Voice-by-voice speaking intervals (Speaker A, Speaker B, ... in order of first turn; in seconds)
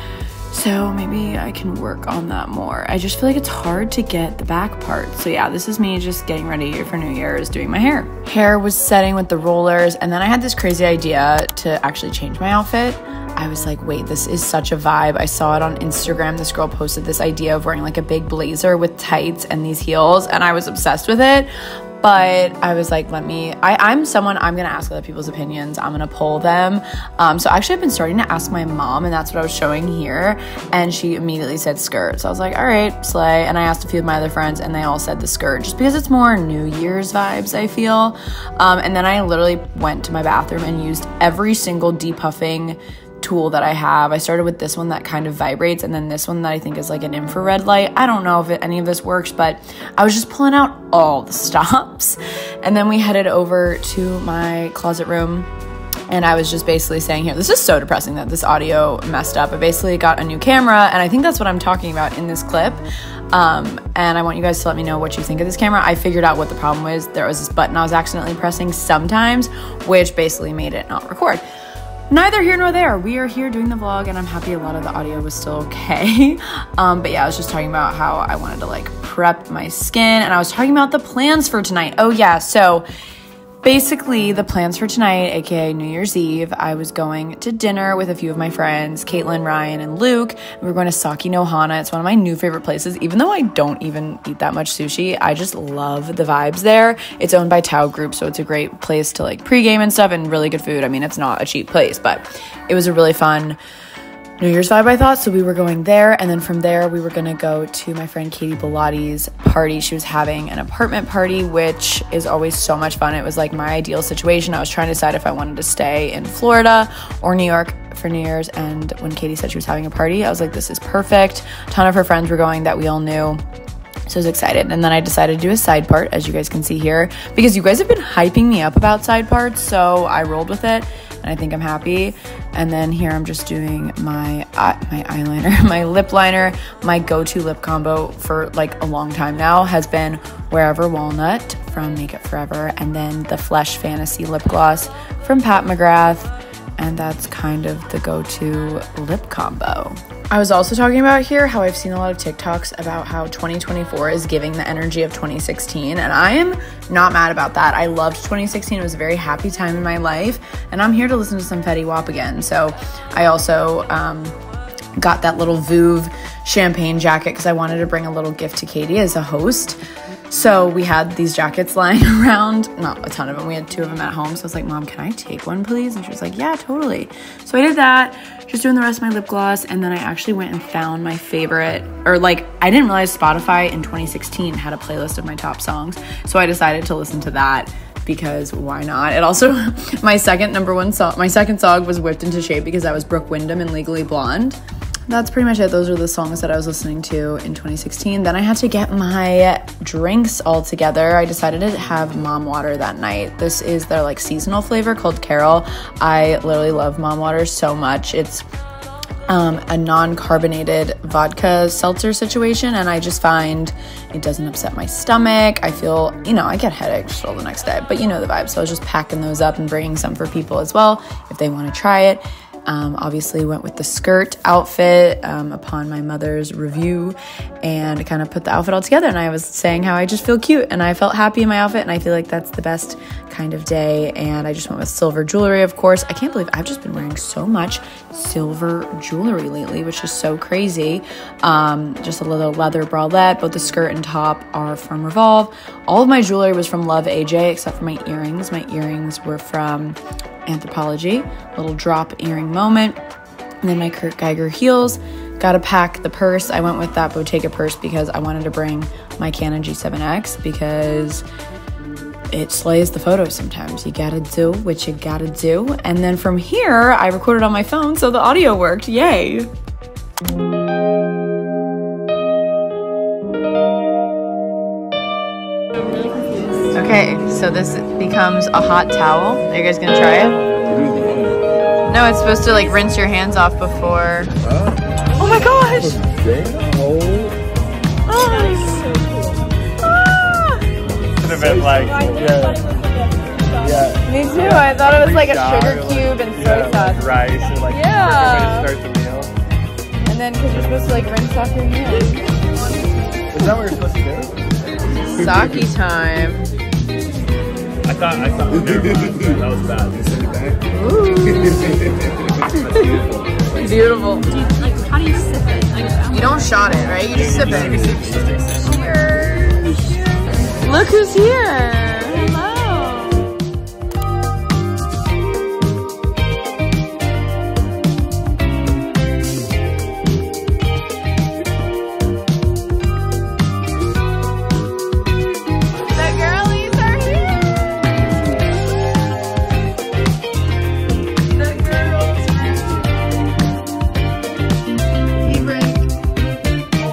Speaker A: 0.5-55.5, 56.1-71.4, 72.1-82.9, 83.6-103.6, 104.4-123.4, 124.1-164.4, 165.0-208.4, 209.3-253.0, 253.6-261.2, 262.3-269.5, 276.7-280.4, 281.9-284.3, 285.1-286.1, 288.1-288.9, 289.8-290.7, 294.0-298.8, 300.0-302.3, 303.4-303.7, 305.0-306.5, 310.7-311.9, 312.4-314.4, 316.1-323.2, 335.9-337.7, 341.3-342.9, 345.2-345.9
Speaker B: 286.3-287.3, 291.2-292.6, 293.6-294.0, 295.2-299.3, 303.3-304.4, 307.8-310.5, 312.8-313.1, 317.4-318.2
Speaker C: 288.6-289.3, 291.9-293.8, 314.3-316.2, 322.9-323.1